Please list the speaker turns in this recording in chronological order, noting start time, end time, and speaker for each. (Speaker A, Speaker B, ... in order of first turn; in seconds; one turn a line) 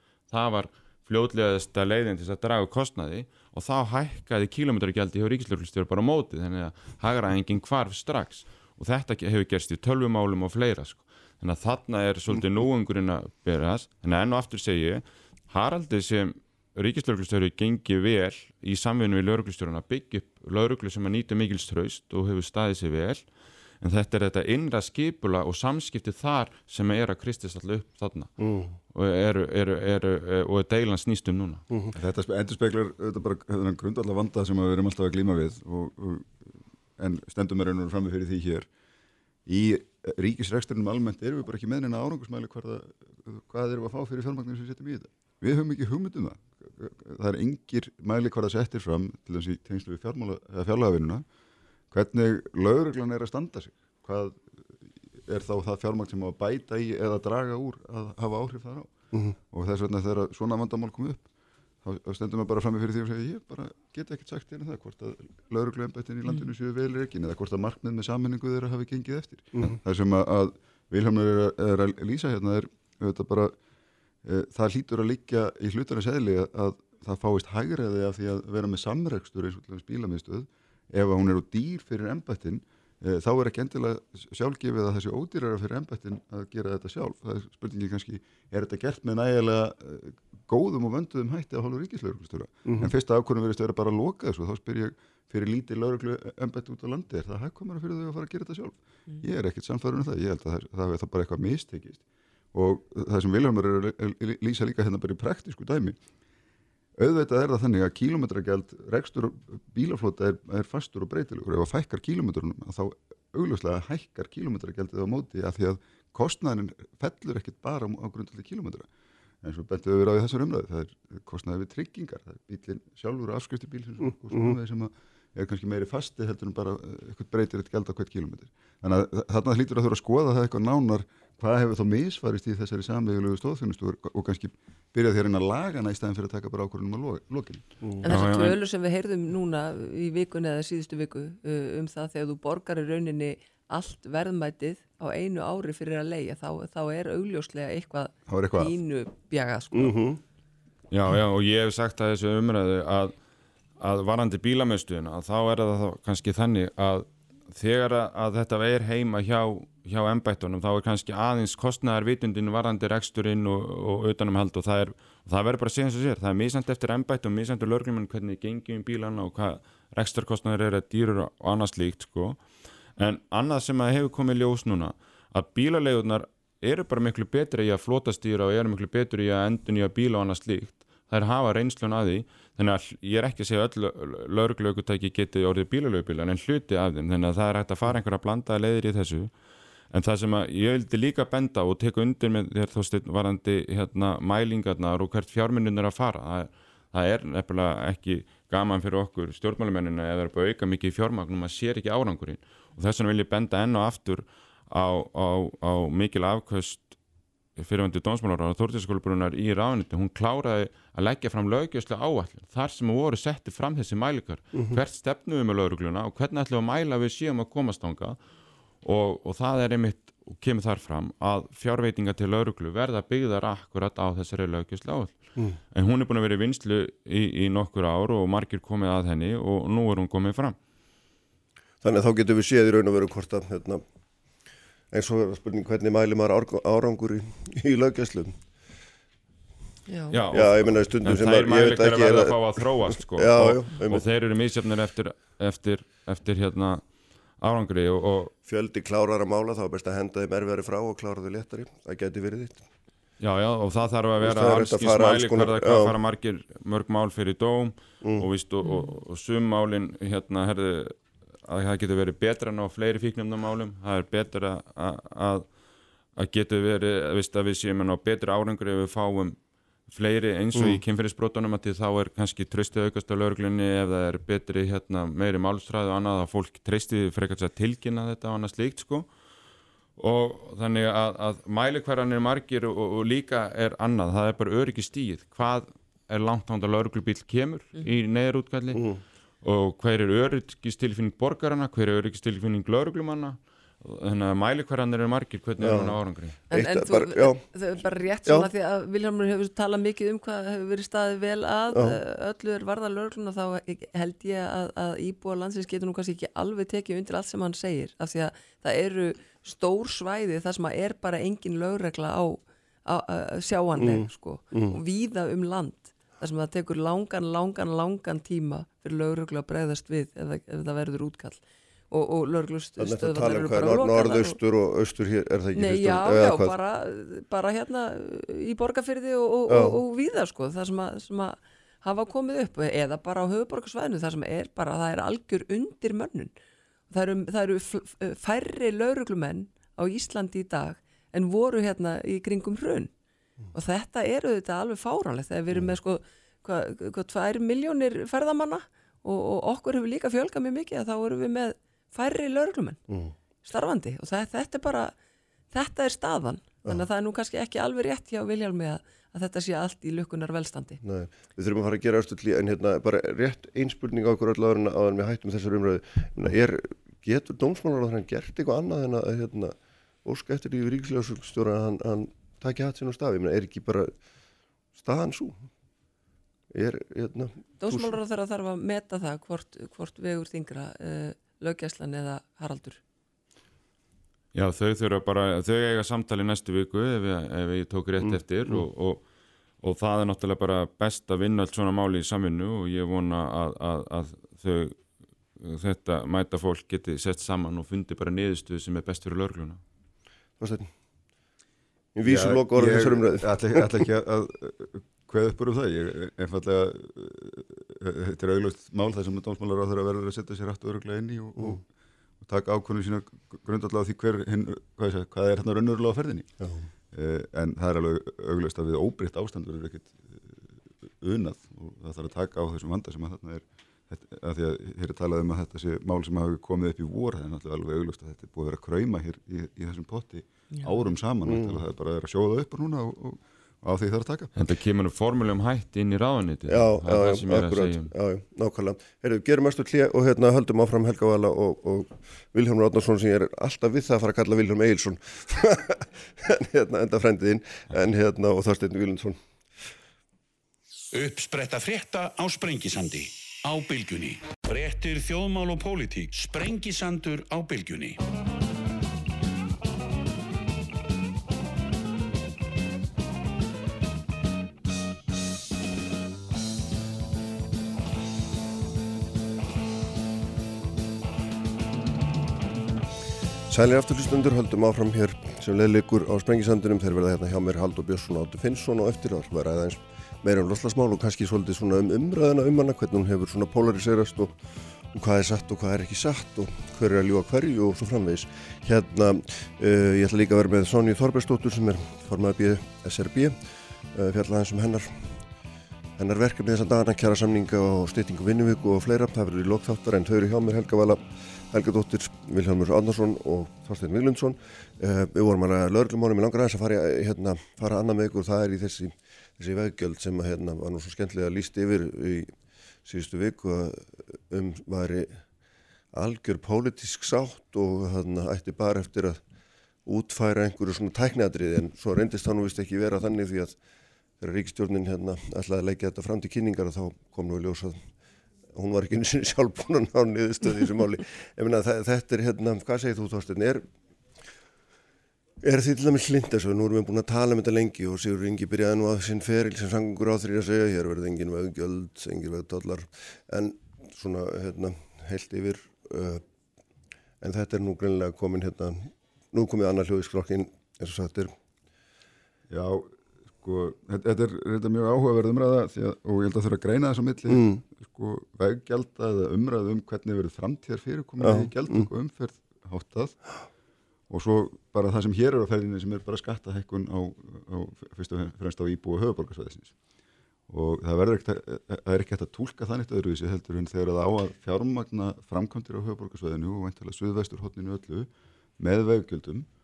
Speaker A: 0.3-23.3
Speaker A: 23.8-28.3
Speaker B: 28.4-28.8
Speaker A: 28.9-31.6
Speaker C: 31.9-38.7
Speaker C: 39.5-51.2
Speaker C: 51.9-58.9
Speaker C: 59.5-61.3
Speaker C: 61.8-73.5
Speaker C: 74.2-106.0
Speaker B: 92.7-92.9
Speaker C: 107.0-118.9
Speaker C: 119.4-137.7
Speaker D: 138.0-150.0
Speaker A: 138.1-138.6
Speaker C: 148.3-148.8
Speaker B: 149.7-150.2
Speaker A: 150.9-153.2
Speaker A: 153.8-172.4
Speaker A: 173.0-189.3
Speaker A: 189.9-207.0
Speaker A: 207.6-218.2
Speaker B: 214.5-214.8
Speaker A: 218.8-225.2
Speaker A: 225.7-230.6
Speaker B: 231.8-233.8
Speaker B: 234.9-238.4
Speaker D: 239.9-240.2
Speaker A: 240.1-248.3
Speaker B: 240.3-244.0
Speaker B: 248.4-252.7
Speaker A: 253.2-265.5
Speaker B: 254.2-256.0
Speaker B: 258.0-258.3
Speaker A: 266.1-279.1
Speaker B: 270.6-270.8
Speaker A: 280.0-288.9
Speaker B: 288.7-289.0
Speaker A: 289.4-296.4
Speaker B: 295.6-296.0
Speaker D: 296.5-324.4
Speaker B: 296.5-297.5
Speaker B: 301.7-302.0
Speaker B: 313.8-314.8
Speaker B: 322.8-326.5
Speaker D: 325.5-336.3
Speaker B: 329.5-329.8
Speaker D: 336.9-342.9
Speaker D: 343.5-352.8
Speaker B: 352.9-353.1
Speaker D: 353.4-354.9
Speaker D: 355.5-360.8
Speaker B: 360.8-373.9
Speaker B: 374.8-375.4
Speaker B: 376.5-378.0
Speaker D: 377.6-382.8
Speaker A: 384.3-389.0
Speaker B: 388.0-388.6
Speaker A: 389.6-394.8
Speaker A: 395.4-399.6
Speaker B: 400.4-400.7
Speaker B: 402.0-403.6
Speaker C: 402.1-411.6
Speaker C: 412.2-416.3
Speaker B: 416.4-416.7
Speaker C: 416.9-434.3
Speaker B: 431.2-431.6
Speaker A: 434.4-437.9
Speaker B: 436.5-449.2
Speaker E: 450.9-458.0
Speaker B: 473.5-484.4
Speaker B: 484.9-493.4
Speaker B: 493.9-495.2
Speaker B: 496.0-512.3
Speaker B: 512.9-515.2
Speaker B: 515.9-519.2
Speaker B: 519.9-523.6
Speaker B: 524.2-527.8
Speaker B: 528.5-533.7
Speaker B: 535.4-546.2
Speaker B: 547.2-551.3
Speaker C: 552.5-563.4
Speaker B: 557.3-557.6
Speaker B: 561.2-561.9
Speaker C: 564.1-569.8
Speaker C: 570.5-579.5